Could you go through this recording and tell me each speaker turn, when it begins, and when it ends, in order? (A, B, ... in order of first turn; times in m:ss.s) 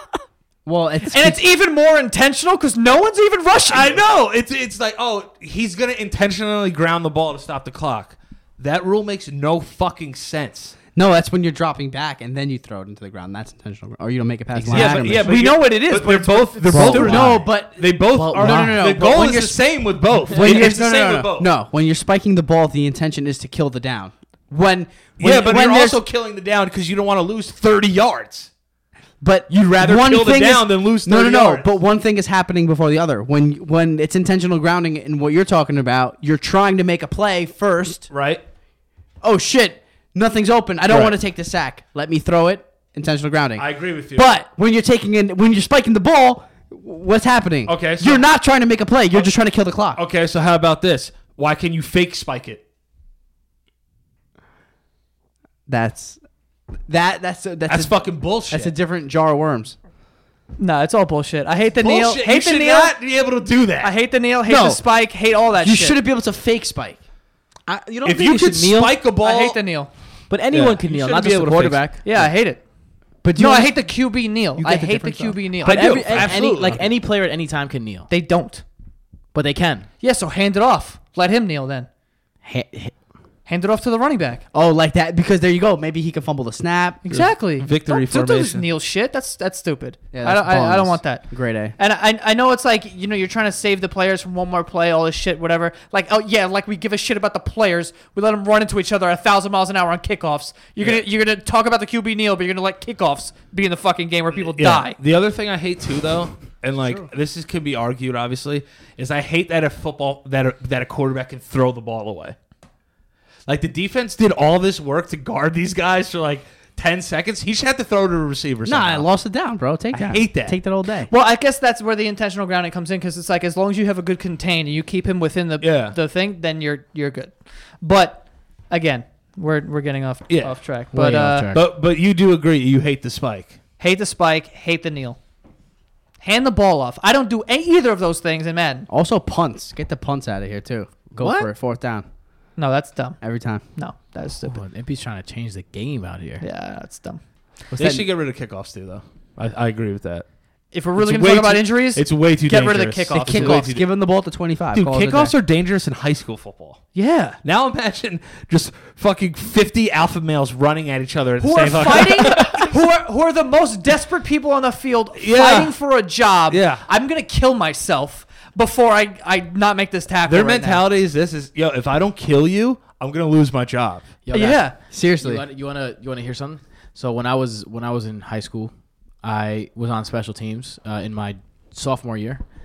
0:00.6-0:01.4 A
0:01.1-0:04.0 B
0:03.7-0:10.8 C
0:10.9-0:15.4 A
0:14.6-0:15.2 D
0:14.7-0:21.5 C
0:15.2-0:17.4 B
0:16.7-0:19.6 A
0:18.2-0:18.8 D
0:20.3-0:26.0 A
0:25.2-0:28.5 C
0:29.2-0:38.1 A
0:29.5-0:31.7 C
0:38.1-0:38.4 C
0:39.2-0:50.0 A
0:40.9-0:41.2 C
0:43.6-0:44.3 C
0:47.7-0:48.2 C
0:50.0-0:52.6 C
0:55.7-0:56.2 A
0:56.9-0:58.0 A
0:57.7-0:58.7 C
0:58.5-0:59.8 A
1:00.6-1:03.0 B
1:01.8-1:04.0 C
1:03.8-1:06.0 B
1:04.5-1:04.8 A
1:05.6-1:07.0 A
1:07.7-1:09.0 D
1:08.0-1:09.6 C
1:09.2-1:09.9 B
1:10.3-1:12.0 D
1:10.5-1:11.8 C
1:12.0-1:12.6 B
1:13.2-1:13.9 A
1:13.3-1:16.4 B
1:14.6-1:15.4 A
1:15.6-1:16.8 C
1:15.6-1:18.1 D
1:16.1-1:16.8 A
1:18.1-1:18.6 B
1:19.3-1:19.9 D
1:20.0-1:21.9 B
1:22.5-1:22.9 A
1:23.5-1:24.4 B
1:24.5-1:27.1 A
1:27.0-1:45.0 B
1:27.1-1:28.7 C
1:30.1-1:31.8 A
1:44.3-1:52.4 C
1:46.8-1:47.1 A
1:53.5-1:59.1 C
1:58.6-2:01.1 A
1:59.9-2:00.6 C
2:01.1-2:11.5 B
2:05.6-2:06.0 C
2:10.3-2:10.6 C
2:10.9-2:11.6 D
2:11.5-2:13.6 C
2:13.8-2:15.2 B
2:16.2-2:18.9 B
2:18.9-2:22.1 A
2:21.1-2:21.5 D
2:22.6-2:23.2 B
2:23.2-2:23.6 A
2:23.8-2:24.6 B
2:24.4-2:26.4 D
2:26.4-2:27.2 B
2:27.7-2:30.3 C
2:27.8-2:28.1 A
2:30.7-2:33.7 B
2:31.0-2:33.8 C
2:33.1-2:35.3 A
2:34.7-2:36.9 C
2:36.9-2:37.4 B
2:37.4-2:42.7 C
2:41.4-2:50.8 B
2:45.2-2:45.8 C
2:46.5-2:46.8 C
2:50.3-2:54.1 C
2:54.2-2:58.7 D
2:54.3-2:54.8 B
2:54.9-2:55.4 A
2:59.2-3:02.4 D